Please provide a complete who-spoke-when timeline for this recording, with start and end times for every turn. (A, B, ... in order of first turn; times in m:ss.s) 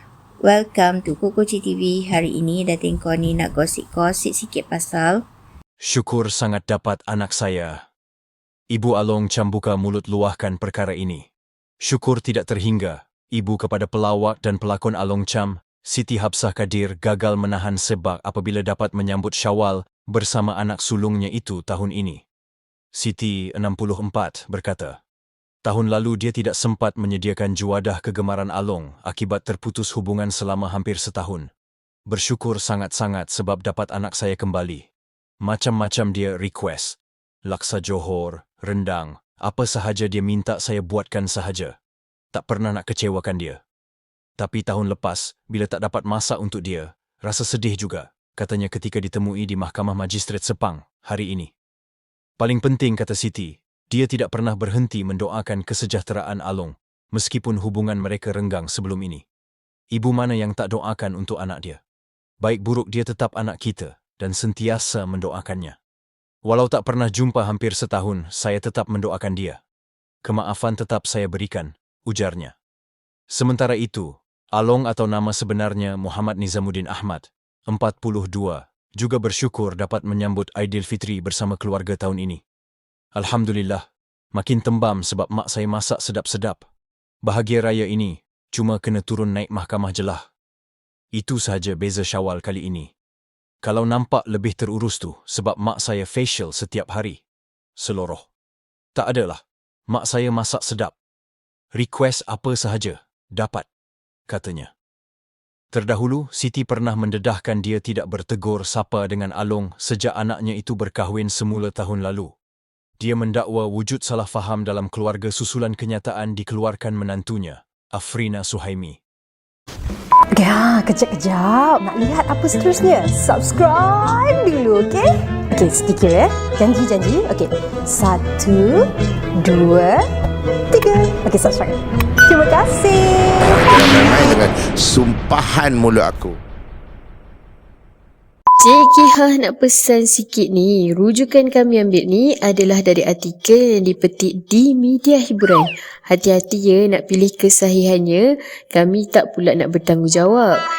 0:00.5-0:05.2 A
0:05.8-0:07.8 B
0:08.7-0:11.3 B
0:11.8-0:22.2 B
0:22.9-0:25.0 B
0:25.6-0:31.5 B
0:32.1-0:34.9 B
0:35.4-0:41.8 B
0:42.3-0:43.6 B
0:44.4-0:51.5 B
0:52.4-0:59.2 B
0:59.9-1:01.8 B
1:02.4-1:05.8 B
1:06.4-1:09.6 B
1:10.2-1:12.6 B
1:13.3-1:22.4 B
1:23.2-1:26.7 B
1:27.2-1:30.3 B
1:31.1-1:32.9 B
1:33.6-1:37.2 B
1:37.8-1:38.3 B
1:39.0-1:40.9 B
1:41.8-1:43.7 B
1:44.3-1:44.7 B
1:45.7-1:52.3 B
1:53.0-1:59.0 B
2:00.3-2:10.0 C
2:10.7-2:13.6 C
2:13.4-2:16.4 D
2:18.6-2:28.2 E
2:27.5-2:30.5 C
2:29.5-2:30.2 E